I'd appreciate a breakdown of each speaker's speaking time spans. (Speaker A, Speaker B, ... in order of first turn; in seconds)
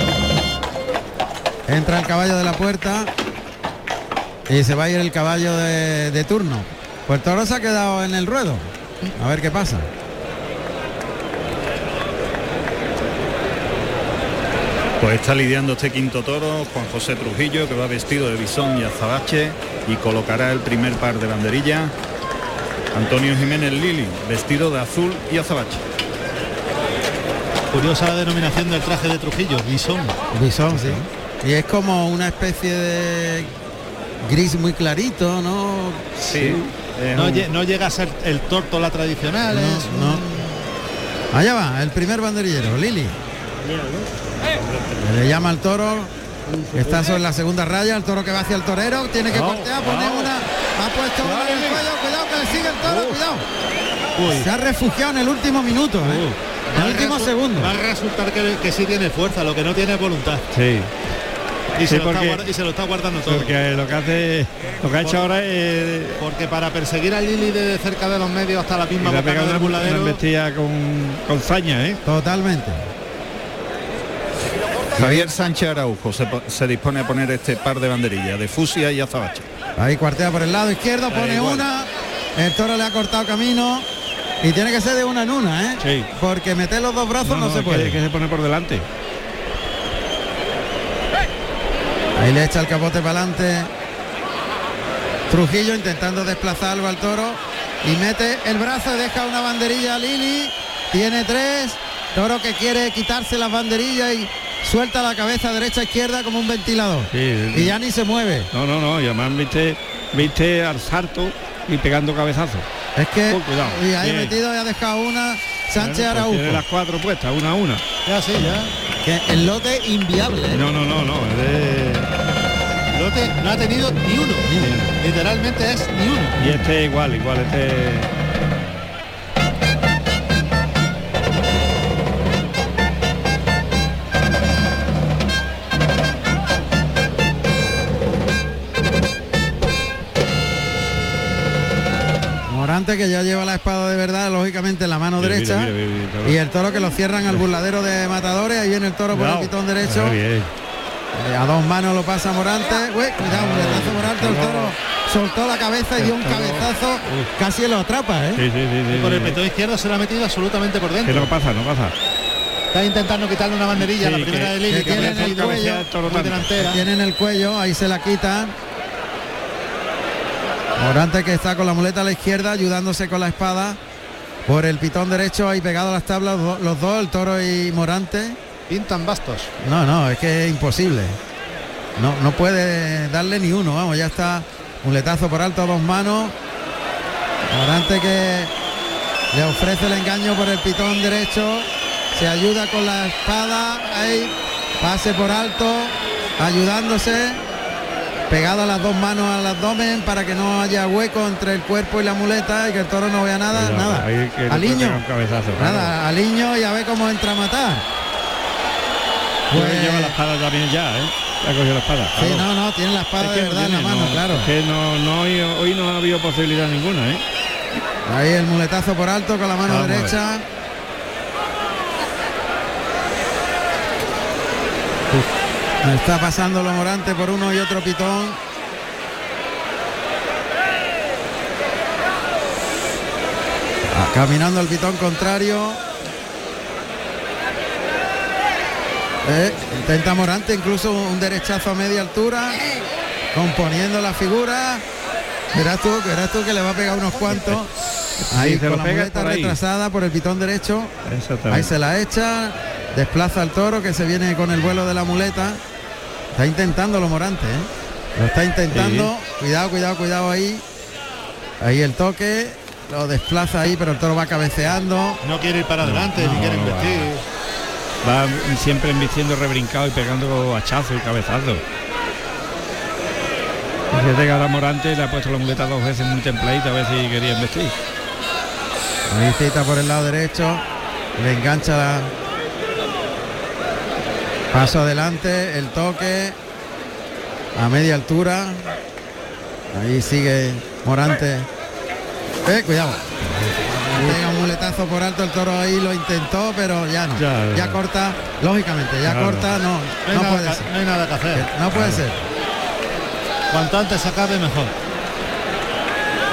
Speaker A: 1.7-3.1, 4.5-9.9, 30.3-33.5, 34.2-36.1, 39.5-40.2, 41.3-43.1, 45.0-46.1, 46.7-53.4, 54.2-57.7, 72.0-72.8, 75.0-75.3, 79.8-83.9, 84.4-88.0, 92.2-93.7, 95.3-108.5, 113.0-116.6, 119.0-120.6, 124.5-124.7, 142.5-150.2, 151.1-158.4, 164.7-165.9, 166.6-168.5, 170.8-173.8, 174.4-178.4, 179.6-181.2, 182.0-186.3, 187.4-188.5, 189.3-197.4, 198.3-205.0, 205.5-207.8, 209.5-210.2, 212.2-214.5, 218.0-220.4, 225.8-228.4, 233.9-235.8, 239.2-242.6, 243.3-244.8, 245.5-247.7, 248.3-250.9, 251.5-255.6, 256.3-260.6, 261.6-265.2, 279.1-280.6, 281.2-282.1, 284.5-286.4, 287.5-288.7, 289.7-291.5, 292.4-293.1, 293.9-300.7, 301.3-302.2
Speaker B: 15.0-21.9, 22.9-25.8, 36.2-37.5, 74.9-79.5
Speaker C: 27.7-30.2, 37.1-40.5, 54.1-54.5, 56.0-60.4, 61.8-63.5, 65.0-65.2, 66.2-70.2, 118.0-118.7, 122.9-124.5, 125.0-126.5, 158.9-161.3, 162.7-166.8, 178.7-179.5, 265.2-267.2, 300.1-301.5, 303.5-304.7
Speaker D: 36.3-36.7, 49.3-50.3, 51.2-51.8, 52.8-53.2, 60.5-60.9, 61.8-62.4, 63.2-66.2, 69.0-72.0, 81.1-81.7, 85.8-86.1, 87.2-88.9, 107.1-107.8, 108.5-112.7, 113.3-114.4, 115.7-117.8, 120.5-122.1, 124.5-124.9, 126.4-128.1, 145.2-146.4, 149.1-150.5, 153.2-154.7, 156.0-157.3, 158.3-159.4, 161.0-161.9, 163.8-166.6, 203.5-205.9, 209.5-212.5, 213.2-217.2, 219.7-220.2, 247.3-247.6, 248.2-249.6, 251.0-251.7, 258.7-259.1, 265.8-267.1, 268.0-271.6, 273.9-277.7, 293.4-294.2, 297.1-297.8, 299.0-299.5, 301.7-302.0